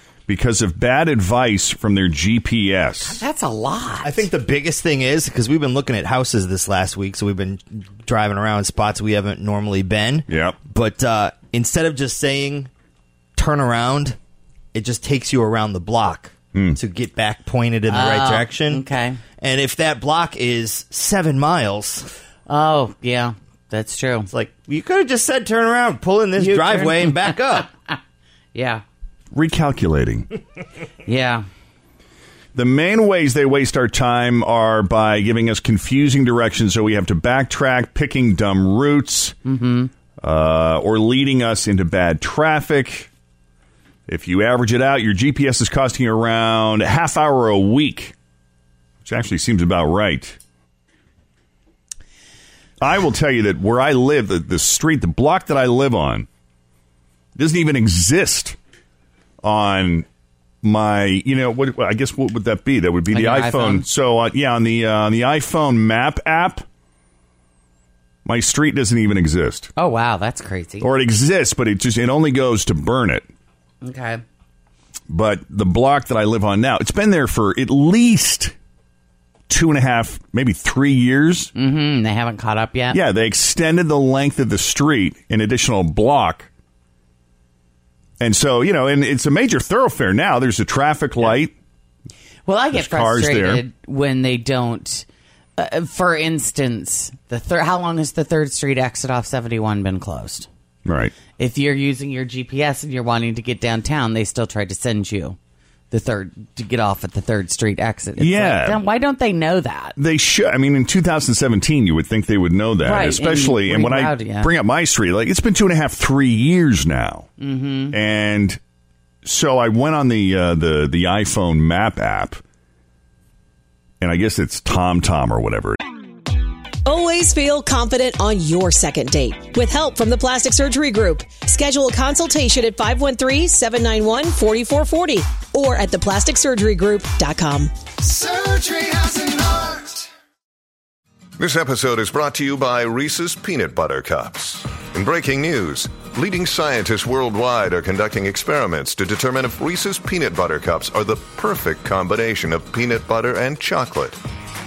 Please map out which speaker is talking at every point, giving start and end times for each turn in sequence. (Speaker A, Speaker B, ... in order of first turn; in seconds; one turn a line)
Speaker A: 0.3-3.2
Speaker B: 3.0-4.3
Speaker C: 4.0-12.7
Speaker A: 10.3-10.6
Speaker C: 13.4-14.2
Speaker C: 14.7-18.8
Speaker A: 16.5-16.8
Speaker B: 17.9-19.2
Speaker C: 19.4-22.0
Speaker B: 22.5-24.3
Speaker C: 24.3-27.7
Speaker B: 26.4-27.9
Speaker B: 28.5-28.8
Speaker A: 29.3-30.3
Speaker B: 31.1-31.5
Speaker A: 32.5-39.4
Speaker B: 39.5-39.9
Speaker A: 40.2-43.1
Speaker A: 44.1-48.1
Speaker A: 49.0-50.4
Speaker A: 52.8-56.3
Speaker A: 57.4-58.6
Speaker A: 59.4-60.1
Speaker A: 60.6-66.7
Speaker B: 63.1-63.9
Speaker A: 68.2-69.7
Speaker B: 69.8-70.9
Speaker A: 70.8-73.3
Speaker B: 73.8-74.2
Speaker A: 75.1-78.5
Speaker A: 79.5-81.5
Speaker B: 81.5-83.0
Speaker A: 82.9-86.5
Speaker A: 88.2-91.5
Speaker B: 92.5-95.1
Speaker A: 92.7-93.6
Speaker B: 95.6-100.5
Speaker A: 100.9-101.2
Speaker B: 101.4-105.4
Speaker B: 105.9-110.0
Speaker A: 108.2-108.8
Speaker A: 110.0-117.3
Speaker B: 112.8-114.5
Speaker B: 117.4-118.0
Speaker A: 117.9-118.6
Speaker A: 119.2-122.4
Speaker A: 124.0-125.8
Speaker D: 126.9-139.8
Speaker E: 141.4-154.2